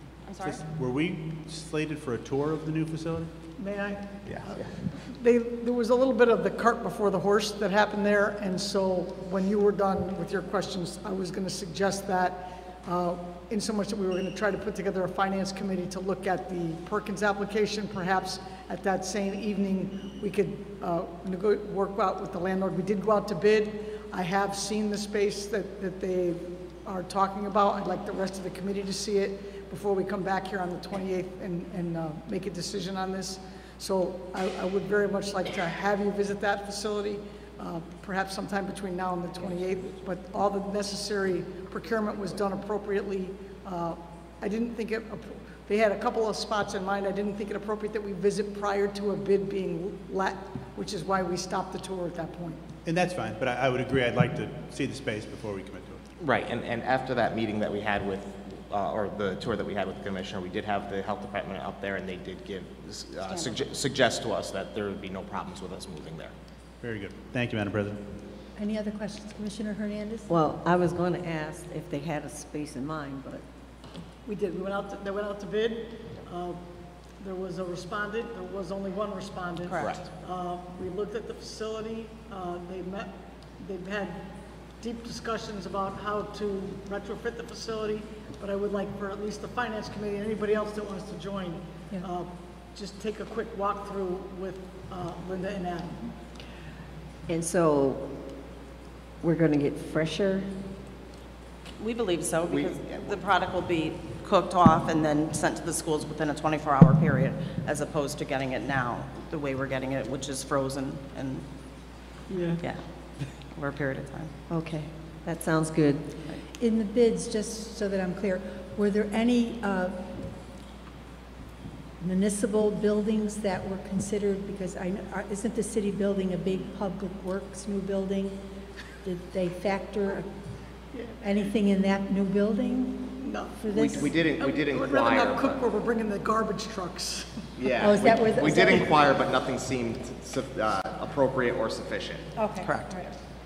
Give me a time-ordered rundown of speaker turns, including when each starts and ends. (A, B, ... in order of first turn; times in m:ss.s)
0:00.3-0:00.6 A
0:00.4-0:03.3 B
0:03.6-0:52.6 C
0:04.3-0:04.6 D
0:52.8-0:56.0 B
0:56.2-1:06.3 D
1:03.2-1:03.7 A
1:06.8-1:08.0 B
1:08.6-1:10.3 E
1:10.3-1:13.4 F
1:14.2-1:16.6 C
1:17.2-1:24.2 C
1:19.6-1:20.0 A
1:19.8-1:20.1 D
1:24.8-1:36.1 C
1:37.3-1:38.1 F
1:39.2-1:40.5 F
1:41.8-1:51.4 A
1:42.5-1:43.2 D
1:52.3-1:52.6 F
1:52.6-1:54.4 A
1:54.5-1:56.1 F
1:56.6-2:00.1 E
2:02.0-2:08.4 E
2:09.0-2:10.3 E
2:10.9-2:11.2 C
2:11.2-2:14.1 E
2:13.2-2:17.5 C
2:13.7-2:15.6 D
2:17.6-2:22.3 D
2:17.8-2:19.0 E
2:22.4-2:23.1 E
2:22.6-2:23.0 A